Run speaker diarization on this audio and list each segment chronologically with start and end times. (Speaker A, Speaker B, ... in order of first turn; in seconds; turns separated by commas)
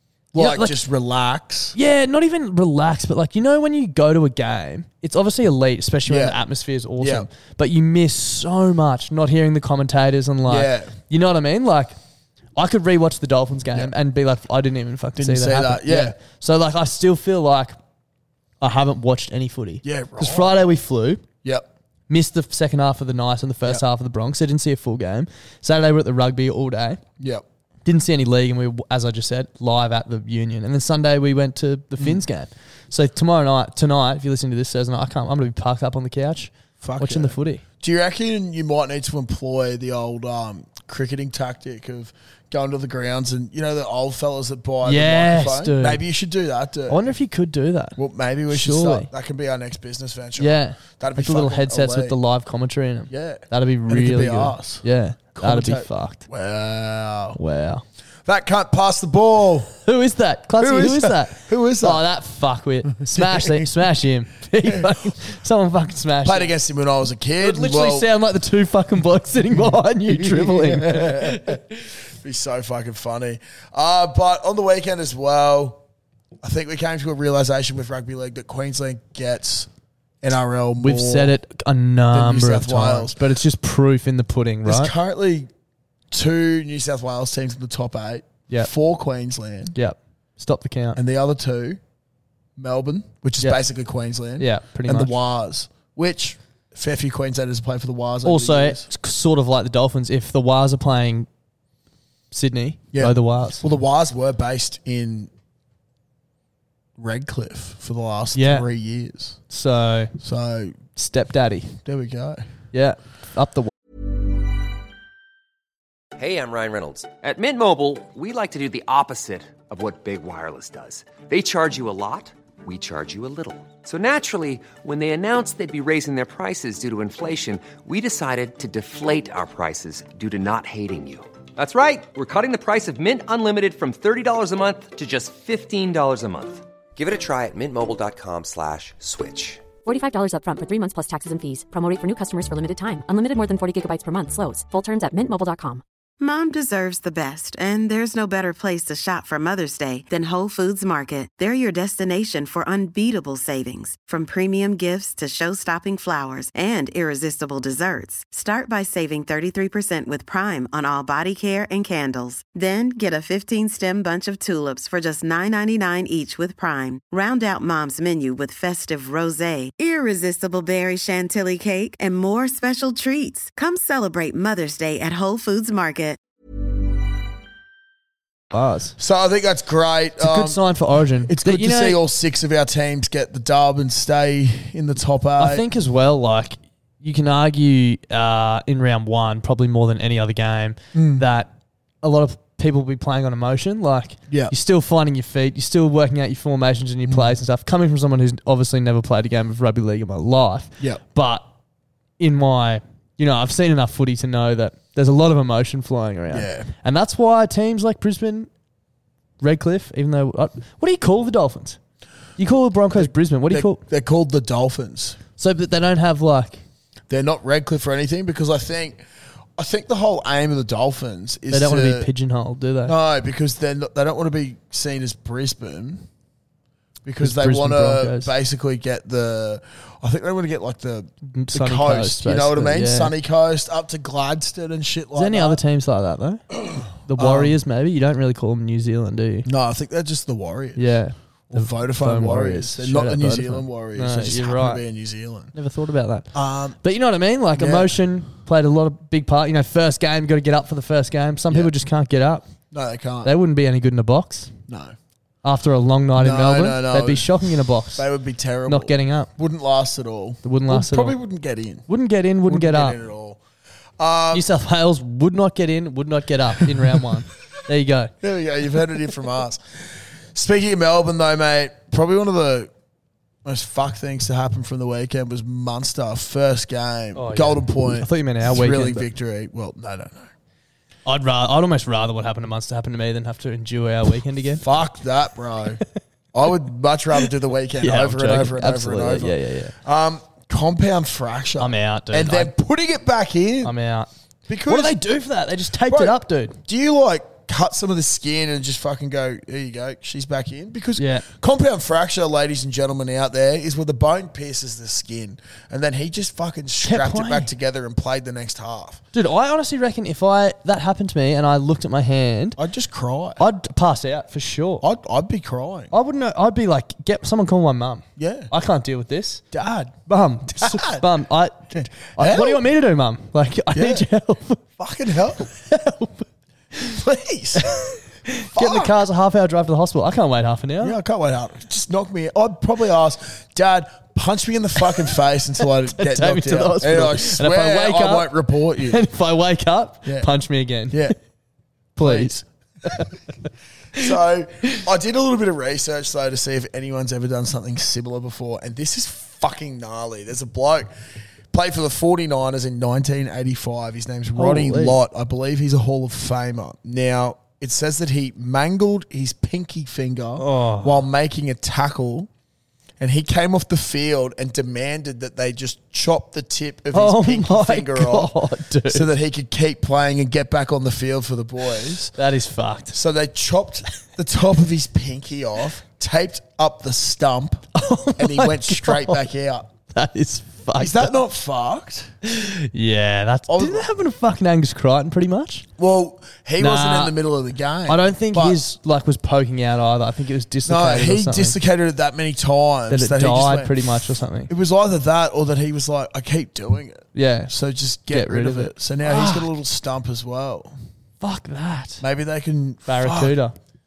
Speaker A: 0.3-1.8, Speaker B: 0.4-0.8, Speaker B: 1.8-11.9, Speaker A: 6.1-6.4, Speaker A: 7.0-7.3, Speaker A: 10.5-10.9, Speaker B: 12.6-17.8, Speaker A: 15.2-16.2, Speaker B: 18.6-21.2, Speaker A: 19.8-20.5, Speaker B: 22.1-27.0, Speaker B: 27.9-37.6, Speaker A: 36.8-47.0, Speaker B: 44.8-46.0, Speaker B: 46.9-48.0, Speaker A: 48.0-52.2, Speaker B: 48.5-49.1, Speaker B: 50.4-56.2, Speaker A: 53.1-54.8, Speaker A: 55.4-57.4, Speaker B: 57.4-57.8, Speaker A: 58.3-59.8, Speaker B: 59.9-66.5, Speaker A: 60.6-62.0, Speaker A: 63.0-63.7, Speaker A: 64.6-65.1, Speaker A: 66.2-68.1, Speaker B: 67.4-71.6, Speaker A: 69.6-71.7, Speaker A: 72.2-75.8, Speaker A: 76.4-79.7, Speaker A: 80.2-81.3, Speaker B: 80.8-84.9, Speaker A: 82.1-83.2, Speaker A: 84.7-85.5, Speaker A: 86.1-89.8, Speaker B: 89.8-91.0, Speaker A: 91.0-91.8, Speaker A: 92.6-98.9, Speaker B: 94.4-95.1, Speaker B: 98.2-101.3, Speaker B: 102.3-103.6, Speaker A: 102.9-105.3, Speaker A: 107.0-109.4, Speaker B: 108.3-108.7, Speaker B: 109.5-110.1, Speaker A: 110.2-110.8, Speaker B: 111.0-111.8, Speaker A: 111.8-112.4, Speaker B: 112.7-113.7, Speaker C: 116.2-139.7, Speaker D: 139.8-145.8, Speaker E: 146.2-176.2, Speaker B: 178.5-179.0, Speaker A: 179.0-180.6, Speaker B: 180.2-182.0, Speaker A: 181.3-185.6, Speaker B: 185.4-191.5, Speaker A: 190.9-191.2, Speaker B: 192.0-201.5, Speaker A: 197.1-197.4, Speaker B: 202.2-208.5, Speaker A: 206.3-206.7, Speaker B: 209.4-211.8, Speaker B: 212.4-213.8, Speaker A: 212.9-215.2, Speaker B: 215.4-216.6, Speaker A: 217.1-219.0, Speaker A: 219.6-222.1, Speaker B: 221.5-222.9, Speaker A: 222.9-226.1, Speaker A: 227.1-235.6, Speaker B: 227.2-228.3, Speaker B: 231.3-233.1, Speaker B: 235.2-239.5, Speaker A: 236.7-237.6, Speaker A: 239.5-240.8, Speaker B: 240.8-244.8, Speaker A: 241.5-245.5, Speaker B: 245.5-252.4, Speaker A: 246.3-246.8, Speaker A: 247.6-247.9, Speaker A: 252.7-253.3, Speaker B: 253.2-254.5, Speaker A: 254.7-254.9, Speaker B: 255.4-258.1, Speaker A: 256.2-257.4, Speaker A: 257.9-261.8, Speaker B: 258.7-259.3, Speaker B: 260.4-261.2, Speaker B: 261.9-263.0, Speaker A: 262.5-263.4, Speaker A: 264.0-264.4, Speaker B: 264.3-268.1, Speaker A: 268.2-272.7, Speaker A: 273.4-280.3, Speaker B: 277.1-279.1, Speaker B: 281.1-284.6, Speaker A: 284.6-293.7, Speaker B: 287.8-289.8, Speaker B: 291.6-292.5, Speaker B: 293.6-294.1, Speaker A: 294.5-295.0, Speaker B: 294.7-296.6, Speaker A: 295.9-309.0, Speaker B: 301.0-301.2, Speaker B: 306.8-307.5, Speaker B: 309.1-312.6, Speaker A: 312.6-313.4, Speaker B: 313.4-314.8, Speaker A: 314.8-315.9, Speaker B: 315.9-319.4, Speaker A: 318.2-318.5, Speaker A: 319.5-320.0, Speaker B: 320.1-324.6, Speaker A: 320.6-321.1, Speaker A: 321.7-322.6, Speaker A: 323.7-324.1, Speaker A: 324.8-325.5, Speaker B: 325.4-327.0, Speaker A: 326.9-327.7, Speaker B: 327.6-331.0, Speaker A: 328.5-328.9, Speaker A: 330.8-339.0, Speaker B: 335.9-341.1, Speaker A: 340.9-341.2, Speaker B: 342.0-343.1, Speaker A: 342.0-343.1, Speaker A: 343.9-350.9, Speaker A: 351.5-362.3, Speaker B: 354.4-355.0, Speaker B: 360.4-361.0, Speaker A: 363.0-368.3, Speaker B: 366.9-369.1, Speaker A: 368.9-372.1, Speaker B: 372.1-373.0, Speaker A: 372.9-379.7, Speaker B: 377.8-379.2, Speaker B: 379.9-381.1, Speaker A: 380.8-382.1, Speaker B: 382.2-385.7, Speaker A: 383.5-383.9, Speaker A: 385.8-388.6, Speaker B: 386.6-387.1, Speaker B: 387.9-391.6, Speaker A: 390.7-393.8, Speaker B: 392.9-394.5, Speaker A: 394.5-400.7, Speaker B: 397.1-397.5, Speaker B: 398.1-399.5, Speaker B: 401.2-402.0, Speaker A: 402.0-403.4, Speaker B: 402.9-403.6